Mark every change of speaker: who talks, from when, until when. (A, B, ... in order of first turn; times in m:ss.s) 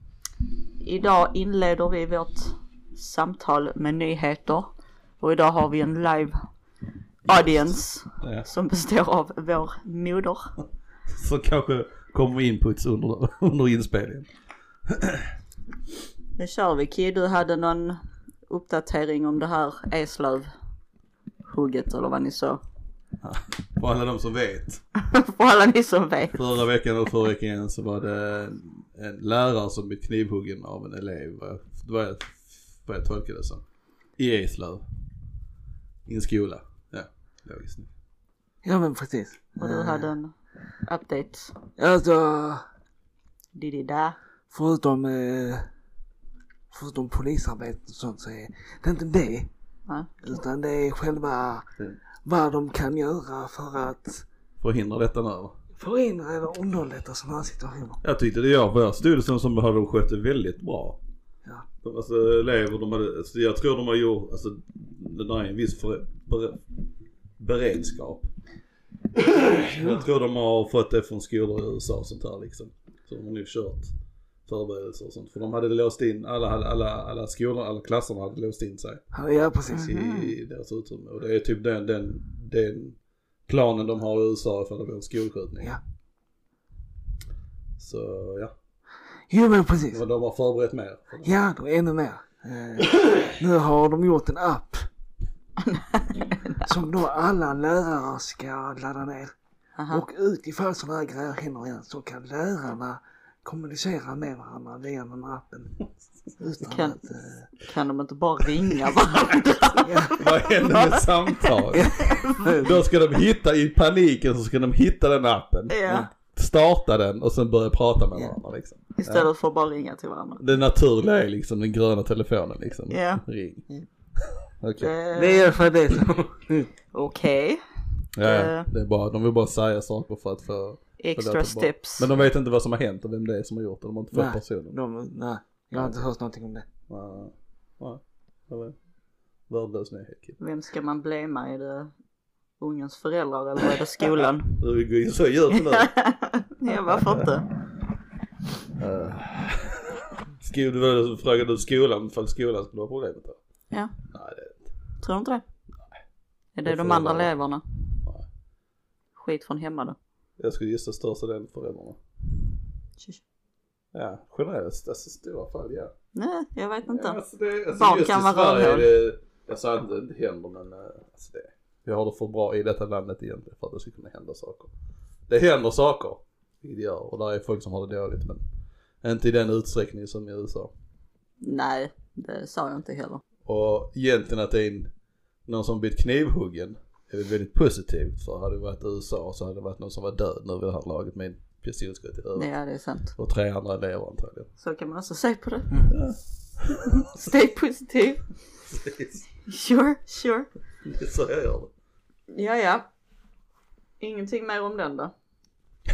0:00.8-0:06.4 A
0:07.3-0:10.5 A
0:08.2-0:08.5 B
0:11.1-0:14.3 B
0:14.9-0:15.3 B
0:16.4-0:20.5 A
0:21.5-0:22.6 A
0:23.2-0:24.8 B
0:25.0-0:26.4 A
0:26.3-0:33.6 B
0:34.2-0:34.8 B
0:36.1-0:37.9 B
0:38.6-0:40.1 C
0:39.6-0:41.6 A
0:41.8-0:42.7 C
0:43.6-0:44.2 A
0:44.5-0:45.7 C
0:46.7-0:49.5 C
0:50.2-0:51.7 C
0:52.2-0:54.3 C
0:54.6-0:55.6 B
0:55.8-0:58.0 C
0:58.0-1:01.0 B
1:01.8-1:06.6 B
1:07.4-1:08.3 B
1:09.1-1:13.9 B
1:09.8-1:10.0 C
1:14.5-1:19.0 B
1:19.1-1:19.9 C
1:19.7-1:20.3 A
1:19.7-1:25.8 B
1:27.8-1:28.6 B
1:29.3-1:30.0 C
1:29.9-1:31.4 B
1:31.2-1:34.9 C
1:35.7-1:36.7 A
1:36.6-1:39.3 C
1:39.8-1:40.0 A
1:39.9-1:45.8 C
1:46.4-1:47.5 C
1:46.7-1:47.0 A
1:47.6-1:52.5 A
1:49.8-1:50.2 C
1:50.2-1:59.3 B
1:51.7-1:52.7 C
1:55.7-1:56.1 A
1:59.0-2:00.4 A
2:00.4-2:03.7 B
2:02.9-2:03.2 A
2:04.6-2:04.9 B
2:04.8-2:05.5 A
2:05.2-2:06.7 C
2:06.9-2:07.6 A
2:08.2-2:14.8 B
2:08.2-2:08.7 A
2:11.0-2:12.1 A
2:14.1-2:16.6 C
2:16.9-2:18.8 B
2:19.5-2:20.4 B
2:20.4-2:21.9 A
2:22.6-2:24.6 A
2:24.6-2:25.9 B
2:25.6-2:27.5 A
2:26.7-2:27.3 B
2:28.8-2:33.4 B
2:34.1-2:34.7 B
2:35.0-2:35.4 A
2:36.6-2:37.6 A
2:36.6-2:37.3 B
2:39.2-2:40.0 A
2:40.4-2:42.0 B
2:43.9-2:45.9 B
2:46.2-2:47.2 A
2:46.9-2:54.7 B
2:47.8-2:48.9 A
2:55.3-2:58.4 B
2:59.0-3:00.7 B
3:01.4-3:03.2 A
3:03.4-3:04.9 B
3:05.5-3:12.5 B
3:12.4-3:13.2 A
3:13.2-3:14.5 B
3:14.6-3:15.8 A
3:15.9-3:17.1 B
3:17.0-3:18.2 A
3:18.7-3:19.3 B
3:19.5-3:20.5 A
3:20.8-3:21.7 B
3:22.3-3:22.9 A
3:24.0-3:25.1 A